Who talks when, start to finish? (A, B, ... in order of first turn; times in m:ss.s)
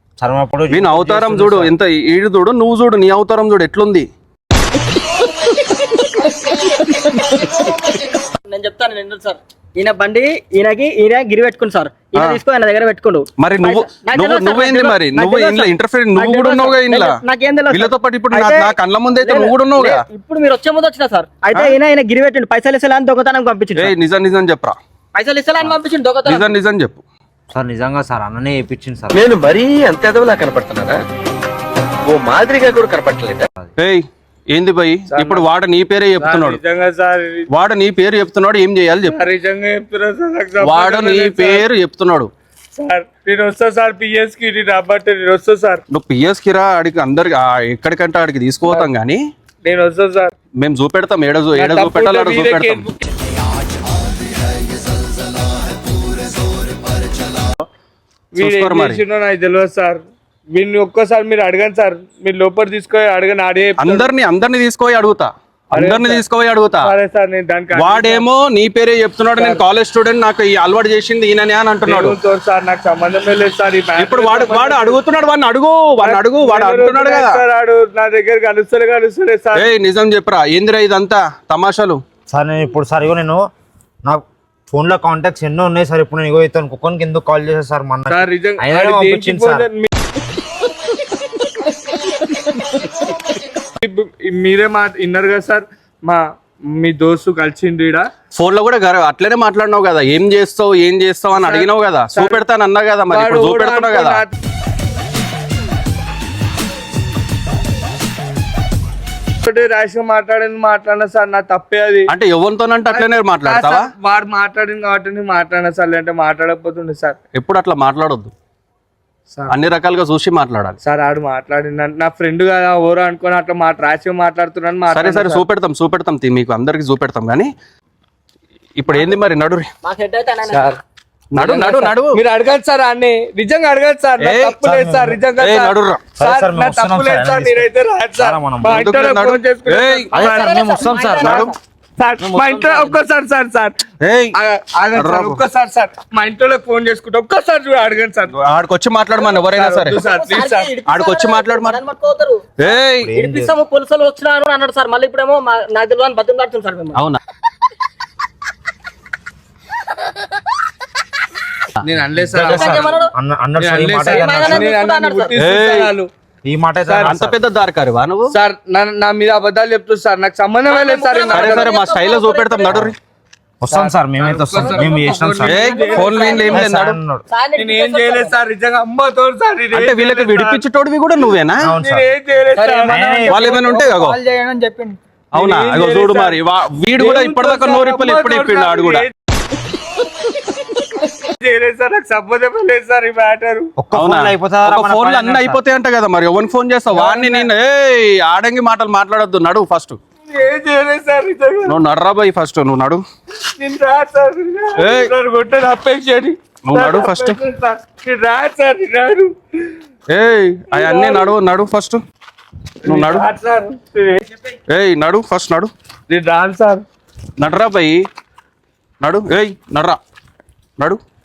0:00.2-0:01.7 A
0:00.7-0:04.0 B
0:05.5-0:23.9 C
0:13.4-0:17.1 B
0:17.7-0:20.0 B
0:23.8-0:24.8 B
0:25.1-0:26.5 C
0:26.2-0:27.0 B
0:27.5-0:29.2 A
0:29.1-0:31.0 D
0:32.0-0:33.5 D
0:33.8-0:36.6 B
0:35.1-0:35.4 E
0:36.2-0:37.5 E
0:37.5-0:39.2 B
0:39.0-0:41.7 E
0:40.6-0:42.3 B
0:42.7-0:45.8 E
0:45.9-0:49.2 B
0:49.6-0:50.3 E
0:50.6-0:52.9 B
0:51.5-0:53.0 E
0:58.3-1:04.1 E
0:58.4-0:59.0 B
1:03.8-1:06.9 B
1:05.7-1:06.2 E
1:06.8-1:08.2 E
1:07.7-1:12.2 B
1:09.4-1:09.6 E
1:11.8-1:15.0 E
1:14.0-1:17.4 B
1:16.0-1:19.7 E
1:19.5-1:22.0 B
1:22.3-1:23.4 A
1:24.0-1:29.7 A
1:28.1-1:29.9 E
1:33.7-1:38.1 E
1:38.3-1:44.2 B
1:41.4-1:42.4 E
1:43.1-1:44.3 E
1:49.4-1:52.1 E
1:52.1-1:53.8 B
1:52.9-1:57.2 E
1:57.3-1:58.3 B
1:59.3-1:59.6 E
1:59.5-2:00.8 B
2:00.8-2:05.4 E
2:04.9-2:07.5 B
2:08.8-2:09.7 B
2:09.8-2:10.7 C
2:10.5-2:10.8 E
2:11.3-2:12.2 B
2:11.4-2:21.1 E
2:14.2-2:14.6 B
2:14.6-2:15.2 A
2:15.4-2:16.0 B
2:16.2-2:18.8 A
2:18.6-2:20.1 B
2:20.1-2:21.6 C
2:20.1-2:21.5 A
2:21.2-2:21.5 B
2:22.0-2:23.8 E
2:22.2-2:22.9 A
2:24.0-2:24.4 B
2:24.3-2:28.3 E
2:24.9-2:25.4 B
2:28.3-2:30.0 B
2:29.2-2:30.7 E
2:30.0-2:32.4 C
2:30.9-2:31.8 B
2:32.6-2:33.1 B
2:33.0-2:33.6 A
2:33.1-2:37.0 C
2:36.9-2:37.2 B
2:41.8-2:43.0 E
2:42.2-2:44.7 A
2:42.6-2:43.1 C
2:43.6-2:46.1 E
2:44.0-2:45.4 C
2:45.3-2:45.9 B
2:46.4-2:47.4 A
2:46.8-2:47.2 E
2:47.0-2:48.3 B
2:48.3-2:51.8 E
2:50.6-2:52.8 C
2:51.3-2:53.0 B
2:53.6-2:55.7 A
2:53.7-2:56.7 E
2:54.6-2:55.0 C
2:55.4-2:57.0 B
2:55.6-2:56.7 C
2:56.5-2:57.2 A
2:57.3-2:58.4 C
2:57.6-3:00.6 E
2:59.7-3:01.7 B
3:01.6-3:02.1 A
3:01.8-3:03.1 E
3:02.6-3:05.0 C
3:02.9-3:03.6 A
3:03.2-3:04.2 B
3:05.3-3:09.0 B
3:05.3-3:06.4 E
3:07.0-3:09.1 E
3:11.2-3:13.7 E
3:13.8-3:15.6 A
3:13.9-3:20.0 B
3:16.9-3:17.5 E
3:20.3-3:21.7 E
3:21.6-3:23.0 B
3:23.4-3:29.7 E
3:24.8-3:25.1 B
3:26.6-3:27.4 B
3:30.1-3:32.0 B
3:30.7-3:31.3 E
3:32.8-3:34.4 E
3:32.8-3:33.3 B
3:34.7-3:35.7 B
3:36.1-3:36.8 E
3:37.4-3:38.0 B
3:39.0-3:40.0 B